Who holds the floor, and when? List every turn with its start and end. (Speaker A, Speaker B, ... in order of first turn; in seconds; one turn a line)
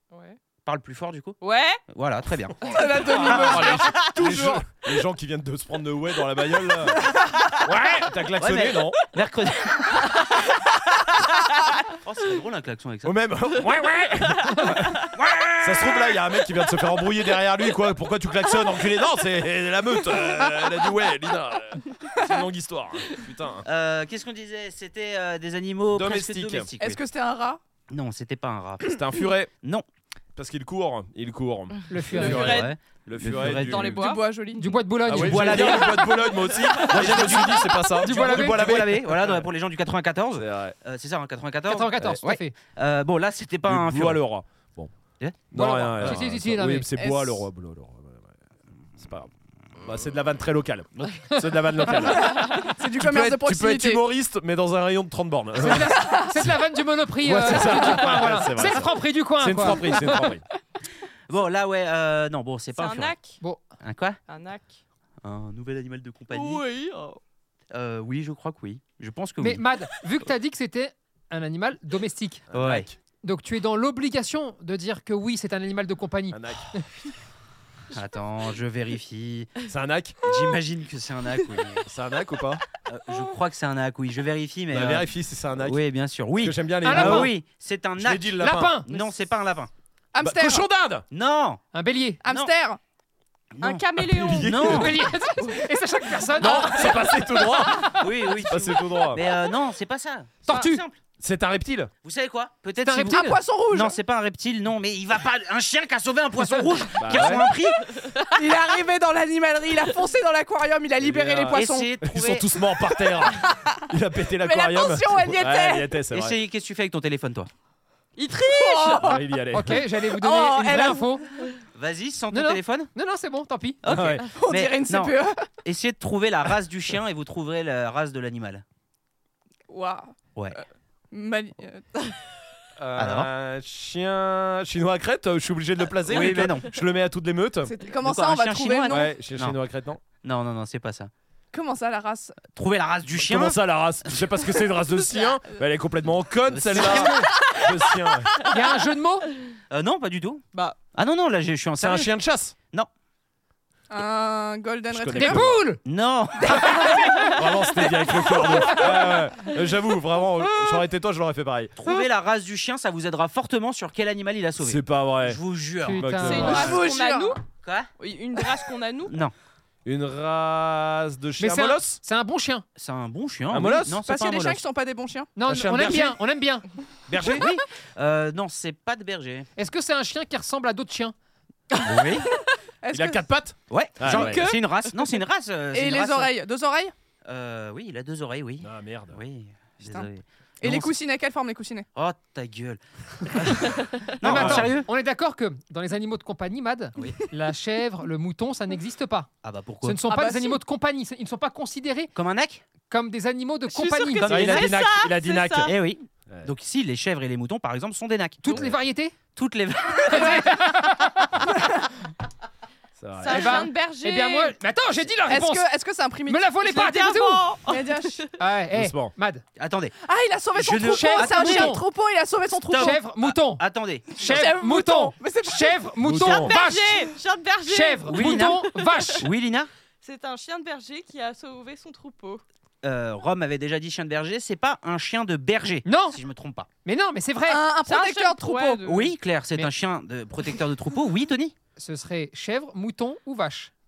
Speaker A: 0.1-0.4
Speaker B: 0.7-3.8
Speaker A: 1.4-1.8
Speaker C: 2.6-4.7
Speaker D: 3.1-7.1
Speaker D: 7.6-9.0
Speaker B: 8.4-10.4
Speaker B: 11.9-13.2
Speaker D: 13.1-15.0
Speaker B: 15.1-16.1
Speaker D: 15.6-23.6
Speaker B: 23.6-27.0
Speaker D: 25.9-26.7
Speaker C: 26.8-27.6
Speaker B: 27.9-29.1
Speaker D: 28.9-29.5
Speaker D: 30.4-34.0
Speaker E: 31.9-32.6
Speaker A: 32.1-32.7
Speaker B: 32.2-34.0
Speaker A: 33.5-34.3
Speaker C: 33.9-34.6
Speaker E: 34.6-36.0
Speaker D: 35.1-39.5
Speaker B: 35.1-36.2
Speaker B: 36.8-44.2
Speaker E: 38.0-38.7
Speaker D: 40.4-40.8
Speaker E: 41.7-42.5
Speaker D: 43.7-44.9
Speaker D: 45.5-48.4
Speaker E: 45.5-46.9
Speaker C: 47.0-47.4
Speaker D: 49.0-56.5
Speaker C: 52.0-54.0
Speaker E: 55.6-60.2
Speaker C: 55.7-56.4
Speaker D: 57.2-60.4
Speaker B: 61.3-63.1
Speaker A: 62.8-63.4
Speaker B: 63.8-64.2
Speaker A: 64.3-64.8
Speaker B: 65.2-66.6
Speaker A: 66.3-67.2
Speaker B: 67.7-69.6
Speaker E: 69.4-72.4
Speaker D: 72.5-73.0
Speaker B: 72.5-72.9
Speaker E: 73.2-76.8
Speaker D: 76.3-76.7
Speaker B: 77.9-79.6
Speaker D: 79.7-80.3
Speaker B: 80.2-81.9
Speaker D: 81.9-82.6
Speaker B: 82.8-85.1
Speaker D: 84.7-85.8
Speaker B: 85.6-89.7
Speaker D: 86.4-87.3
Speaker E: 86.8-87.3
Speaker D: 88.0-88.8
Speaker E: 88.4-88.9
Speaker C: 90.1-90.7
Speaker D: 90.2-91.0
Speaker B: 91.1-91.6
Speaker E: 91.7-92.2
Speaker C: 92.2-92.8
Speaker B: 93.5-95.0
Speaker A: 93.6-94.8
Speaker D: 94.0-95.0
Speaker E: 94.6-96.9
Speaker D: 96.4-99.2
Speaker B: 98.0-101.0
Speaker E: 100.5-100.8
Speaker D: 101.2-101.9
Speaker B: 102.0-107.9
Speaker E: 102.8-103.4
Speaker C: 103.1-104.0
Speaker E: 106.4-106.7
Speaker D: 107.0-107.5
Speaker A: 107.9-108.4
Speaker C: 108.3-111.9
Speaker D: 111.0-116.4
Speaker B: 111.5-112.5
Speaker C: 113.2-113.8
Speaker C: 114.4-115.9
Speaker B: 116.1-117.5
Speaker A: 118.2-119.2
Speaker C: 118.4-119.2
Speaker D: 118.9-119.8
Speaker E: 119.5-121.2
Speaker C: 120.0-121.2
Speaker B: 121.8-122.9
Speaker E: 122.3-123.8
Speaker B: 123.8-128.6
Speaker D: 123.9-124.3
Speaker C: 124.3-125.5
Speaker C: 129.7-132.2
Speaker D: 132.8-137.7
Speaker B: 133.0-133.3
Speaker B: 136.1-136.8
Speaker C: 137.6-139.1
Speaker B: 138.0-139.6
Speaker D: 138.9-140.0
Speaker B: 140.2-141.1
Speaker C: 141.5-142.4
Speaker B: 142.5-143.6
Speaker D: 143.2-148.4
Speaker B: 146.5-147.3
Speaker E: 146.7-147.3
Speaker E: 148.4-149.3
Speaker B: 149.7-152.1
Speaker D: 151.8-152.6
Speaker C: 153.9-155.5
Speaker D: 154.9-155.6
Speaker E: 155.2-155.8
Speaker B: 155.8-156.9
Speaker C: 156.5-157.1
Speaker E: 156.7-157.3
Speaker D: 157.3-161.7
Speaker B: 161.8-166.8
Speaker D: 164.6-165.4
Speaker E: 165.8-166.7
Speaker D: 165.9-166.8
Speaker A: 166.2-167.4
Speaker C: 166.4-167.4
Speaker B: 167.6-167.9
Speaker A: 168.0-169.2
Speaker B: 169.1-169.3
Speaker D: 169.8-172.0
Speaker E: 171.4-172.7
Speaker B: 172.8-174.6
Speaker D: 173.5-174.0
Speaker C: 174.0-175.3
Speaker E: 175.4-176.7
Speaker D: 175.5-176.2
Speaker D: 177.1-177.5
Speaker B: 177.1-179.5
Speaker E: 179.6-181.2
Speaker B: 181.8-182.3
Speaker C: 182.8-183.2
Speaker D: 182.9-184.5
Speaker B: 183.7-186.3
Speaker A: 184.1-185.1
Speaker C: 185.7-186.9
Speaker B: 187.3-190.9
Speaker D: 188.6-189.2
Speaker C: 189.8-190.1
Speaker C: 190.6-191.9
Speaker B: 192.0-194.9
Speaker E: 194.2-199.3
Speaker D: 194.2-194.7
Speaker B: 199.4-200.0
Speaker E: 199.8-202.1
Speaker C: 200.1-200.6
Speaker B: 202.2-202.6
Speaker E: 202.9-204.4
Speaker A: 203.7-205.7
Speaker B: 204.2-204.7
Speaker D: 204.3-205.7
Speaker B: 205.6-208.7
Speaker E: 208.4-209.2
Speaker B: 209.4-210.5
Speaker E: 210.1-211.5
Speaker D: 213.0-213.6
Speaker A: 213.2-214.6
Speaker E: 213.3-215.7
Speaker C: 215.3-216.5
Speaker E: 216.3-217.6
Speaker A: 216.6-218.3
Speaker C: 217.7-218.2
Speaker E: 218.4-219.4
Speaker D: 218.7-219.1
Speaker B: 219.6-219.9
Speaker C: 220.0-223.0
Speaker B: 220.5-221.8
Speaker E: 220.8-221.8
Speaker B: 222.7-224.5
Speaker E: 222.8-223.6
Speaker E: 224.2-227.1
Speaker C: 224.2-225.8
Speaker D: 226.0-226.5
Speaker A: 226.2-229.2
Speaker E: 227.7-229.3
Speaker B: 228.1-228.7
Speaker B: 229.2-229.7
Speaker A: 230.0-232.4
Speaker B: 232.8-236.7
Speaker E: 235.8-236.2
Speaker E: 236.8-237.6
Speaker C: 237.5-239.0
Speaker A: 237.9-239.0
Speaker B: 238.8-241.5
Speaker E: 241.8-243.7